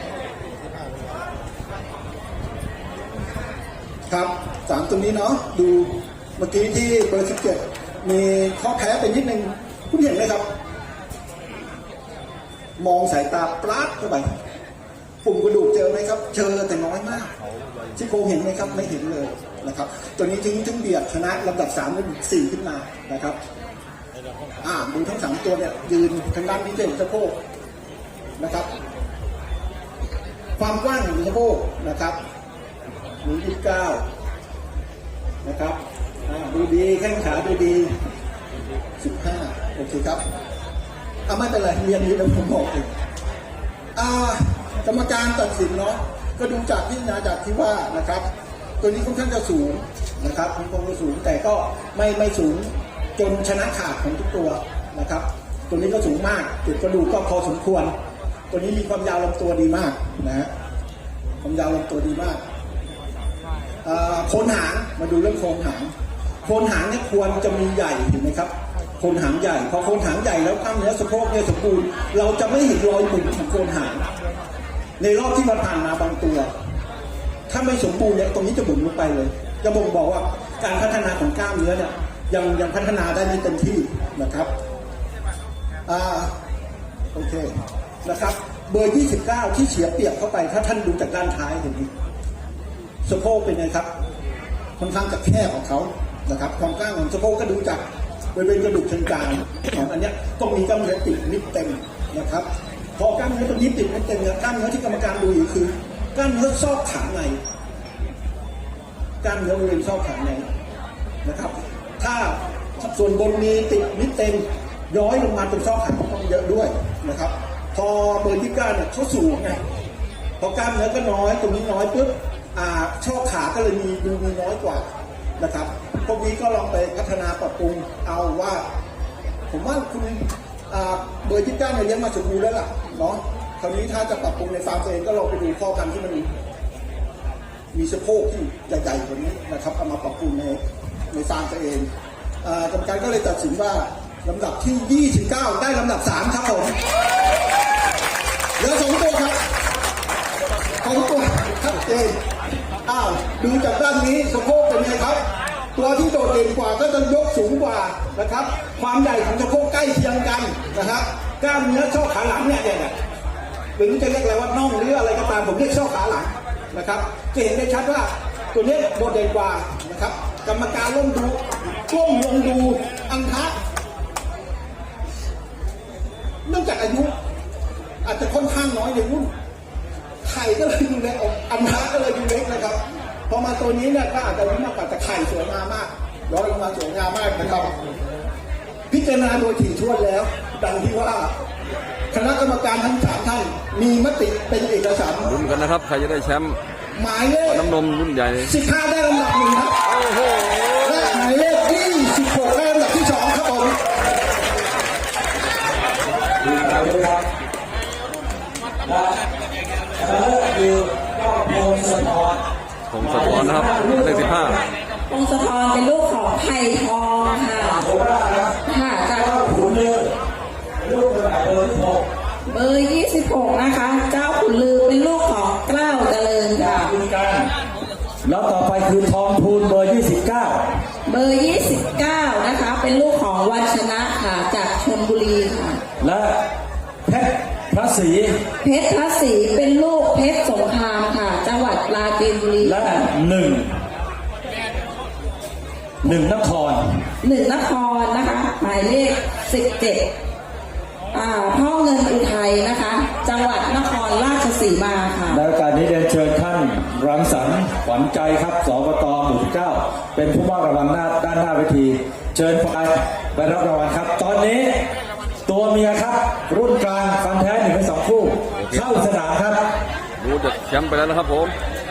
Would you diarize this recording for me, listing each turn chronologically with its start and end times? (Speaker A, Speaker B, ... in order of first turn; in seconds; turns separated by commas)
Speaker A: 4.1-10.4, Speaker A: 12.8-14.3, Speaker A: 15.2-17.3, Speaker A: 17.9-23.4, Speaker A: 24.6-27.4, Speaker A: 28.4-28.7, Speaker A: 30.6-32.2, Speaker A: 33.2-34.0, Speaker A: 35.4-37.9, Speaker A: 39.0-40.2, Speaker A: 41.3-42.9, Speaker A: 44.0-48.2, Speaker A: 48.8-57.9, Speaker A: 58.5-60.5, Speaker A: 61.4-62.4, Speaker A: 63.8-65.9, Speaker A: 66.4-74.1, Speaker A: 75.0-76.5, Speaker A: 77.5-84.5, Speaker A: 85.8-86.3, Speaker A: 87.1-91.9, Speaker A: 93.0-93.9, Speaker A: 94.8-97.8, Speaker A: 98.3-107.4, Speaker A: 109.2-110.4, Speaker A: 111.2-119.6, Speaker A: 120.4-124.8, Speaker A: 125.4-128.6, Speaker A: 129.5-136.3, Speaker A: 137.7-141.9, Speaker A: 142.4-146.8, Speaker A: 148.6-149.4, Speaker A: 150.8-152.2, Speaker A: 152.8-155.2, Speaker A: 155.7-162.9, Speaker A: 163.8-173.5, Speaker A: 176.4-177.1, Speaker A: 178.0-179.3, Speaker A: 180.2-187.7, Speaker A: 188.9-191.3, Speaker A: 192.1-195.3, Speaker B: 195.2-196.6, Speaker A: 196.9-197.7, Speaker B: 197.4-198.5, Speaker A: 198.4-199.9, Speaker A: 200.7-203.8, Speaker C: 206.4-207.2, Speaker C: 208.8-209.2, Speaker C: 210.0-212.4, Speaker B: 212.9-214.6, Speaker C: 213.0-214.6, Speaker D: 215.1-217.8, Speaker C: 217.6-218.6, Speaker D: 218.7-219.4, Speaker C: 219.1-220.1, Speaker C: 220.8-222.1, Speaker D: 222.4-226.9, Speaker C: 226.6-227.5, Speaker C: 228.2-230.8, Speaker D: 231.1-235.8, Speaker C: 236.0-236.4, Speaker C: 237.1-238.4, Speaker D: 238.6-243.1, Speaker C: 242.6-243.8, Speaker C: 246.0-247.1, Speaker D: 247.2-250.1, Speaker D: 251.1-255.4, Speaker C: 255.3-264.9, Speaker C: 265.4-269.7, Speaker B: 268.5-268.9, Speaker B: 270.2-271.6